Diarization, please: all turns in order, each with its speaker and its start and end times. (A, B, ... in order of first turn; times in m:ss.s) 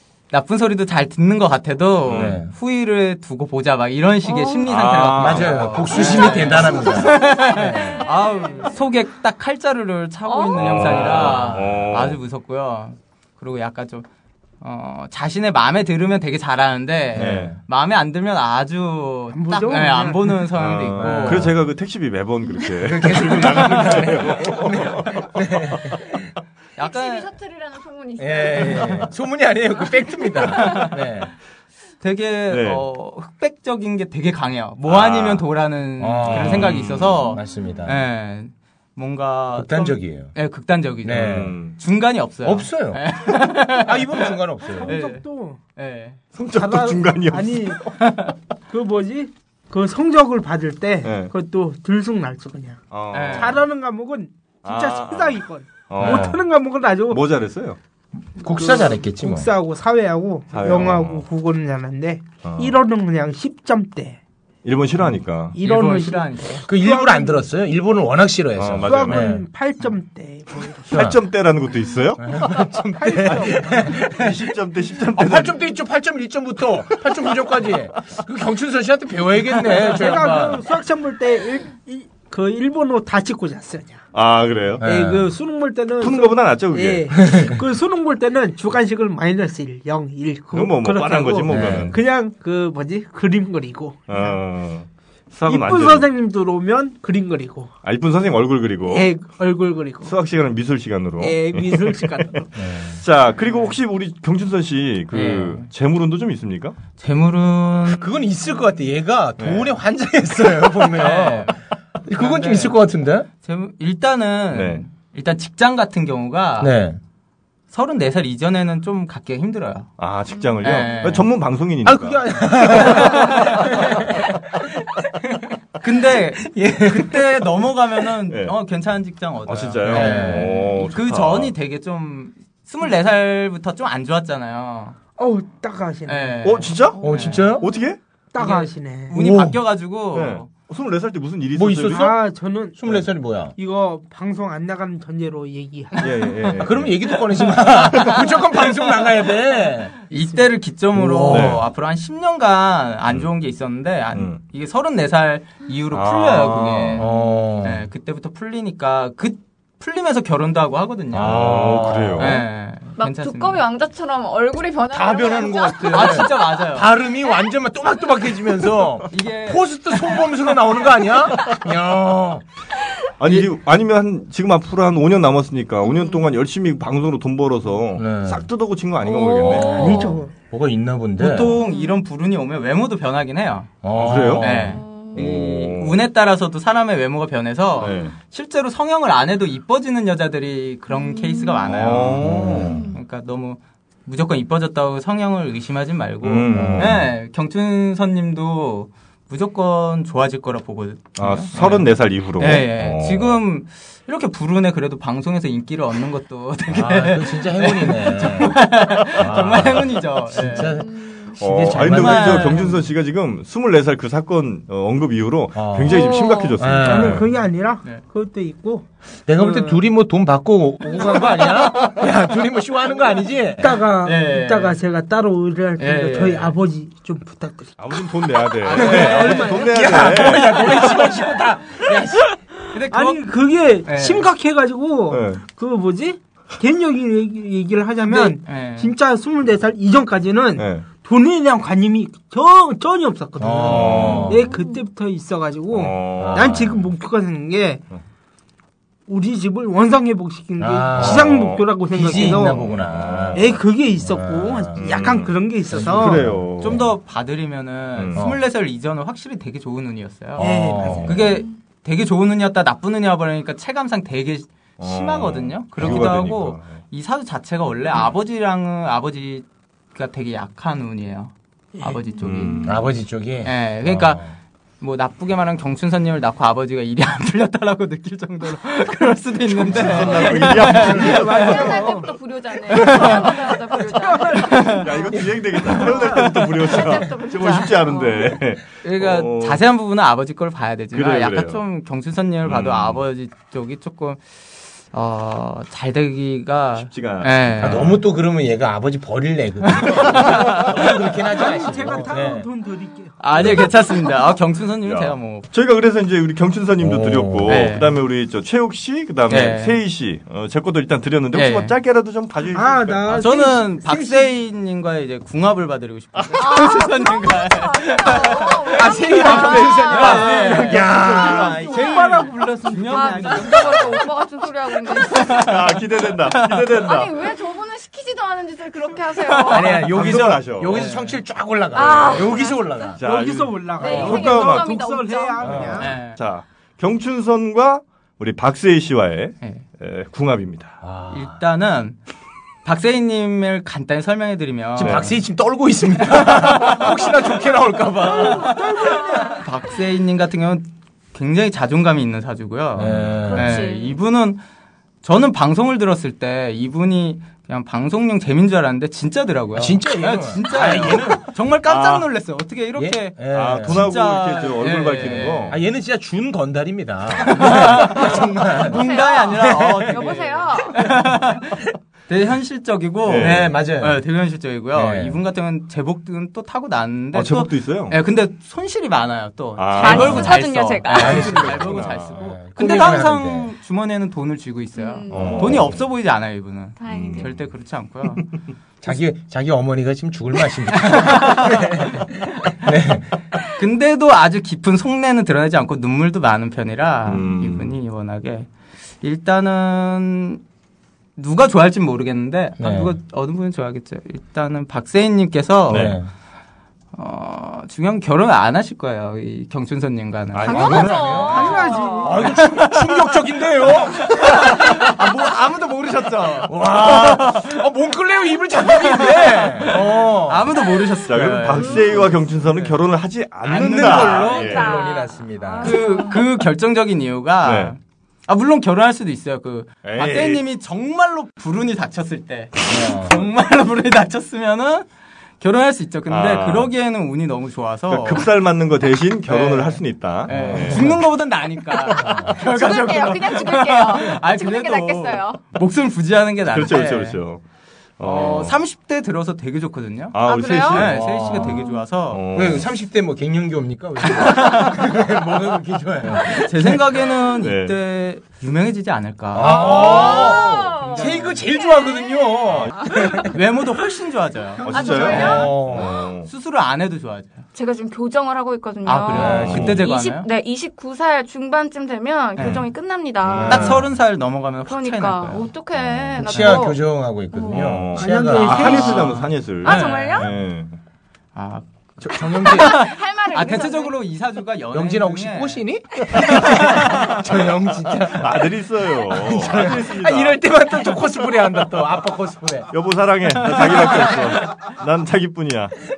0:00.3-0:14.0 A
0:02.1-0:02.4 B
0:02.1-0:02.5 C
0:04.2-0:04.6 D
0:04.6-0:06.4 B
0:05.2-0:08.0 C
0:06.0-0:08.7 D
0:10.3-0:10.6 D
0:10.5-0:12.2 B
0:10.8-0:11.7 C
0:14.6-0:21.5 A
0:17.1-0:17.6 C
0:17.2-0:17.5 B
0:19.3-0:20.4 E
0:20.5-0:25.8 B
0:20.9-0:21.5 C
0:22.7-0:26.3 C
0:26.8-0:27.3 A
0:26.8-0:29.1 D
0:28.2-0:31.3 C
0:29.9-0:30.9 D
0:30.6-0:30.9 A
0:32.0-0:46.2 A
0:32.5-0:32.8 B
0:34.8-0:35.4 B
0:36.0-0:38.0 C
0:36.2-0:37.2 B
0:39.6-0:40.3 C
0:41.0-0:41.6 C
0:41.1-0:41.8 B
0:42.4-0:45.0 C
0:44.8-0:45.6 E
0:46.3-0:47.8 B
0:46.5-0:47.9 E
0:47.9-0:48.3 A
0:48.7-0:57.2 E
0:51.0-0:51.3 B
0:52.9-0:53.6 B
0:53.1-0:53.6 A
0:54.6-0:56.4 B
0:56.0-0:56.3 C
0:57.1-0:57.8 B
0:58.4-0:59.5 C
0:58.4-1:04.2 E
1:00.5-1:01.2 B
1:02.4-1:02.8 B
1:04.6-1:05.6 B
1:05.5-1:07.4 E
1:05.6-1:06.6 A
1:06.6-1:09.4 C
1:08.6-1:09.3 B
1:08.8-1:10.9 E
1:10.8-1:12.2 B
1:10.9-1:11.2 C
1:12.2-1:14.5 C
1:13.0-1:14.0 E
1:13.2-1:15.6 B
1:15.1-1:20.6 C
1:19.8-1:24.0 E
1:24.1-1:24.8 B
1:24.8-1:25.3 C
1:24.8-1:34.3 E
1:26.0-1:27.1 B
1:27.2-1:27.6 C
1:30.5-1:31.9 B
1:31.5-1:32.0 C
1:34.1-1:36.1 B
1:35.5-1:37.7 E
1:37.8-1:39.1 B
1:38.9-1:40.1 E
1:40.0-1:46.8 B
1:41.2-1:42.4 E
1:42.5-1:43.0 C
1:45.1-1:45.7 A
1:47.0-1:48.1 A
1:47.8-1:53.3 C
1:49.4-1:49.7 B
1:50.9-1:51.5 A
1:52.1-1:52.8 A
1:53.4-1:56.8 A
1:54.5-1:54.8 B
1:56.6-1:57.0 C
1:57.7-1:59.9 A
2:00.0-2:03.8 B
2:00.6-2:01.2 A
2:01.8-2:04.4 C
2:02.7-2:04.0 A
2:05.7-2:15.0 A
2:06.8-2:07.1 C
2:09.5-2:11.5 B
2:09.9-2:10.6 C
2:15.2-2:16.4 E
2:16.1-2:17.6 A
2:16.4-2:17.0 B
2:17.0-2:17.6 C
2:17.6-2:18.0 B
2:18.3-2:19.2 E
2:18.4-2:20.5 A
2:19.1-2:19.6 C
2:20.1-2:22.1 B
2:21.6-2:22.2 C
2:21.8-2:22.8 E
2:22.8-2:23.5 C
2:23.6-2:26.5 E
2:26.0-2:27.0 B
2:26.6-2:30.0 C
2:27.9-2:28.4 B
2:30.1-2:37.1 A
2:30.9-2:31.6 C
2:31.3-2:31.6 B
2:34.1-2:34.4 B
2:35.9-2:37.0 B
2:36.9-2:37.8 C
2:37.6-2:41.6 A
2:41.1-2:42.4 C
2:41.2-2:42.4 B
2:42.2-2:43.6 A
2:43.0-2:46.4 D
2:44.9-2:52.4 C
2:45.8-2:47.0 A
2:49.1-2:50.3 A
2:53.2-3:00.0 B
2:55.8-2:56.2 D
2:58.0-2:58.4 C
2:59.1-3:00.2 D
2:59.5-3:01.5 C
2:59.5-3:00.3 E
3:01.2-3:03.7 A
3:01.6-3:01.9 D
3:03.8-3:04.8 C
3:03.9-3:06.0 B
3:04.4-3:30.8 A
3:04.8-3:05.2 D
3:07.8-3:08.1 B
3:10.9-3:11.7 D
3:11.6-3:12.8 B
3:12.2-3:12.9 C
3:12.6-3:12.9 D
3:16.2-3:17.1 B
3:16.5-3:17.1 C
3:21.2-3:23.4 B
3:26.7-3:32.8 C
3:29.0-3:29.7 B
3:30.8-3:31.2 D
3:31.4-3:37.3 B
3:31.7-3:32.8 A
3:35.5-3:37.2 C
3:35.9-3:36.6 D
3:36.8-3:39.8 E
3:39.3-3:43.8 C
3:40.8-3:42.0 E
3:43.6-3:48.1 E
3:44.0-3:44.8 A
3:45.8-3:46.5 A
3:47.8-3:50.9 B
3:48.6-3:49.6 A
3:48.6-3:51.3 E
3:48.7-3:52.4 C
3:52.7-3:53.3 A
3:52.8-4:07.8 E
3:53.8-3:54.3 A
3:55.1-3:55.4 B
3:58.0-3:58.9 A
4:00.6-4:00.8 B
4:03.4-4:04.5 C
4:03.6-4:04.4 B
4:04.4-4:04.8 D
4:05.7-4:06.7 B
4:06.2-4:06.8 C
4:09.1-4:12.7 E
4:10.6-4:14.9 C
4:11.0-4:11.6 B
4:12.7-4:13.5 B
4:13.3-4:16.2 E
4:14.7-4:16.8 B
4:15.7-4:16.8 C
4:16.6-4:32.7 A
4:18.0-4:18.3 B
4:18.1-4:18.4 C
4:20.4-4:21.4 E
4:20.4-4:21.4 C
4:24.8-4:26.7 B
4:25.8-4:26.2 C
4:32.2-4:32.8 B
4:32.6-4:34.4 C
4:33.4-4:34.2 A
4:34.8-4:41.3 A
4:39.7-4:42.1 B
4:39.8-4:40.8 C
4:40.2-4:42.1 E
4:41.0-4:48.4 D
4:42.7-4:43.6 A
4:43.9-4:44.8 E
4:44.2-4:44.9 A
4:44.8-4:49.6 B
4:47.4-4:47.7 A
4:48.8-4:57.9 A
4:50.9-4:51.6 B
4:52.4-4:53.0 B
4:56.8-4:58.0 B
4:57.6-5:02.5 C
4:59.6-5:00.9 A
4:59.8-5:00.5 B
5:01.3-5:03.2 E
5:03.2-5:05.5 A
5:03.4-5:03.7 C
5:04.8-5:13.3 B
5:06.8-5:07.5 C
5:07.5-5:08.0 A
5:09.3-5:09.8 A
5:11.3-5:11.7 A
5:12.5-5:14.3 E
5:13.1-5:24.1 A
5:16.3-5:20.5 D
5:18.7-5:21.9 C
5:20.1-5:23.7 E
5:22.9-5:25.6 D
5:24.9-5:26.6 A
5:25.2-5:27.2 B
5:26.6-5:29.8 D
5:29.1-5:29.9 A
5:29.5-5:33.0 C
5:29.7-5:30.8 B
5:30.7-5:31.2 A
5:31.7-5:32.9 D
5:33.0-5:34.8 B
5:33.0-5:35.9 E
5:33.8-5:35.6 D
5:35.4-5:35.8 C
5:35.4-5:40.8 B
5:35.8-5:36.2 A
5:40.8-5:41.4 C
5:41.1-5:42.0 A
5:42.6-5:45.1 A
5:44.8-5:48.6 C
5:44.8-5:45.1 B
5:46.0-5:54.4 A
5:48.1-5:49.4 E
5:52.7-5:53.6 C
5:52.8-5:53.3 B
5:53.3-5:54.0 D
5:55.0-6:05.6 A
5:59.5-6:01.2 C
6:00.7-6:01.0 B
6:01.6-6:02.0 B
6:02.8-6:03.9 C
6:03.3-6:05.6 B
6:05.5-6:10.1 C
6:07.2-6:28.3 A
6:08.6-6:11.0 D
6:13.0-6:13.4 B
6:13.2-6:14.0 C
6:14.7-6:15.2 C
6:17.1-6:18.0 B
6:19.6-6:20.4 B
6:19.7-6:21.6 D
6:20.9-6:23.5 C
6:21.1-6:22.2 B
6:24.7-6:25.6 D
6:25.1-6:25.8 B
6:26.8-6:27.3 D
6:26.9-6:27.3 B
6:28.8-6:33.2 C
6:30.7-6:32.6 A
6:33.5-6:38.5 A
6:37.0-6:37.7 B
6:39.0-6:40.4 A
6:41.2-6:46.0 A
6:42.6-6:43.0 C
6:45.7-6:46.0 B
6:45.7-6:46.1 C
6:46.9-6:50.8 A
6:50.3-6:51.6 B
6:50.4-6:52.1 D
6:50.5-6:54.8 C
6:51.3-6:52.2 E
6:52.2-6:52.9 A
6:53.7-6:57.6 A
6:56.5-7:00.5 C
6:58.6-7:02.8 A
7:01.1-7:04.8 B
7:03.4-7:05.8 C
7:03.5-7:04.5 A
7:04.2-7:06.2 D
7:05.6-7:14.9 A
7:07.4-7:07.7 B
7:09.8-7:10.4 B
7:12.7-7:13.2 C
7:15.4-7:18.3 A
7:16.1-7:16.7 B
7:17.9-7:21.0 B
7:19.3-7:27.2 A
7:20.3-7:21.0 C
7:22.0-7:22.3 C
7:22.4-7:25.4 D
7:26.5-7:27.4 B
7:28.0-7:28.6 B
7:28.0-7:32.2 A
7:30.1-7:32.6 B
7:30.2-7:31.0 D
7:31.5-7:31.8 D
7:32.3-7:36.8 C
7:34.0-7:34.8 A
7:36.1-7:41.5 A
7:37.4-7:37.8 B
7:39.3-7:43.3 C
7:39.6-7:40.6 B
7:39.6-7:42.3 D
7:42.5-7:42.7 B
7:43.2-7:45.5 A
7:44.6-7:46.3 B
7:44.6-7:45.5 D
7:45.0-7:45.9 C
7:46.2-7:47.4 A
7:47.5-7:53.8 D
7:48.8-7:50.3 A
7:49.1-7:49.8 C
7:49.3-7:49.8 B
7:52.4-7:52.6 A
7:52.4-7:52.6 B
7:53.2-7:53.8 B
7:53.3-7:53.8 C
7:53.4-7:55.5 A
7:54.6-7:56.8 D
7:55.7-7:56.6 B
7:56.2-7:59.0 C
7:57.3-7:57.7 D
7:57.5-8:00.8 B
7:57.9-7:59.3 E
7:58.5-8:00.3 D
7:59.2-8:00.3 A
8:01.3-8:01.6 A
8:02.0-8:02.8 C
8:02.2-8:07.2 A
8:02.4-8:04.0 D
8:04.7-8:08.5 C
8:07.9-8:10.9 B
8:09.0-8:12.7 C
8:12.7-8:15.8 B
8:13.5-8:14.2 A